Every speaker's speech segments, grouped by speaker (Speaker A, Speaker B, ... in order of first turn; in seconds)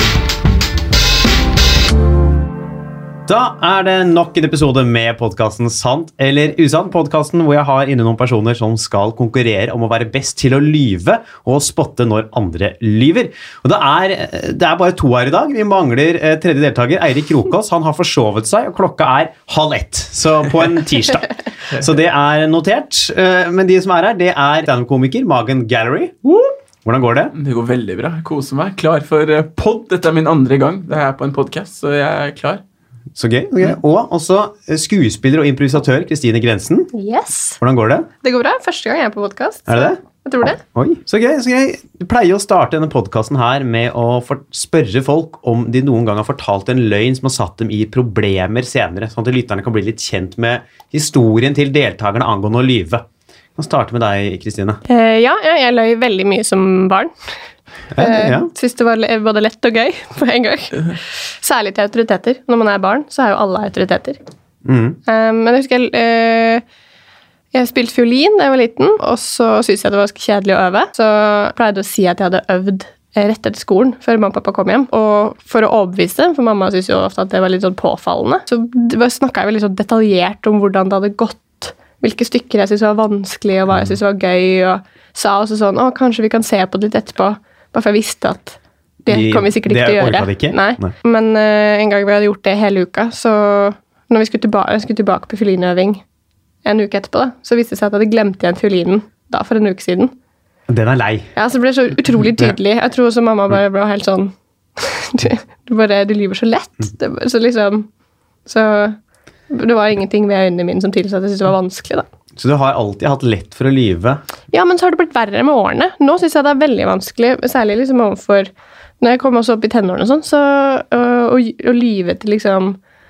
Speaker A: 3.3-26.1, 26.8-27.3, 33.1-36.9, 37.6-38.1, 39.7-40.0, 40.6-53.0, 53.5-54.8, 57.9-58.5, 64.6-65.0, 89.1-90.9, 100.7-101.3, 112.3-114.2
Speaker B: 26.2-26.5, 27.3-32.6
Speaker C: 36.9-37.6, 38.2-40.6, 54.9-57.1, 58.0-64.2, 65.1-66.6, 67.5-96.0, 96.6-100.1, 101.3-107.9, 108.5-109.0, 109.5-112.0, 114.5-122.8